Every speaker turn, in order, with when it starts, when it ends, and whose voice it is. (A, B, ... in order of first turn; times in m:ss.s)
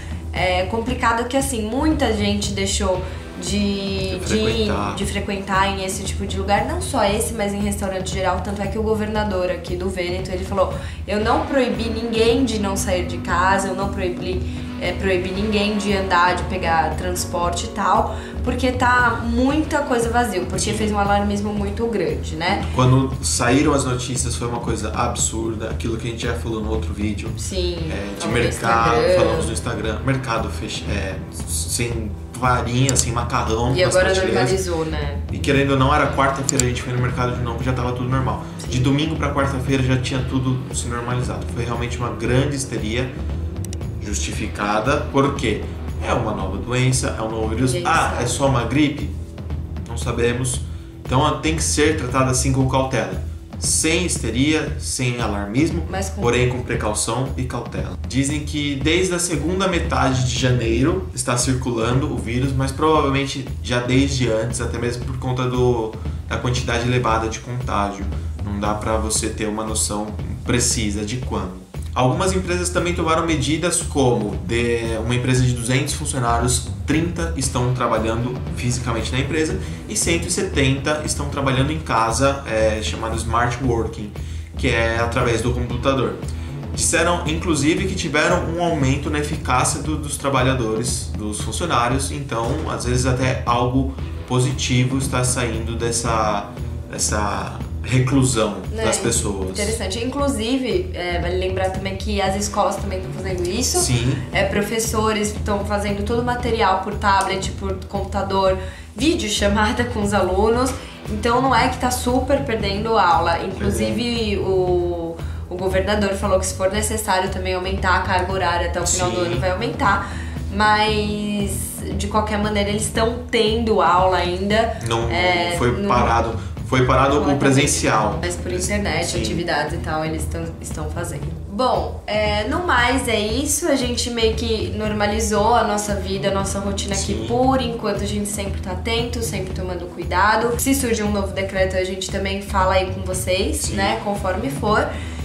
0:00.3-0:22.6 A
0:04.1-0:05.0 B
0:20.5-0:20.9 B
0:22.5-0:34.6 B
0:27.4-0:29.5 A
0:33.7-0:35.2 A
0:35.3-0:43.1 B
0:38.6-0:38.9 A
0:44.0-0:49.1 B
0:47.6-0:48.5 A
0:49.8-1:26.2 B
0:55.9-0:56.4 A
1:26.7-1:39.8 B
1:38.7-2:06.1 A
1:43.7-1:44.2 B
1:53.6-1:54.0 B
1:58.8-1:59.4 B
2:04.8-2:09.4 B
2:07.1-2:24.9 A
2:16.9-2:17.4 B
2:23.6-2:24.0 B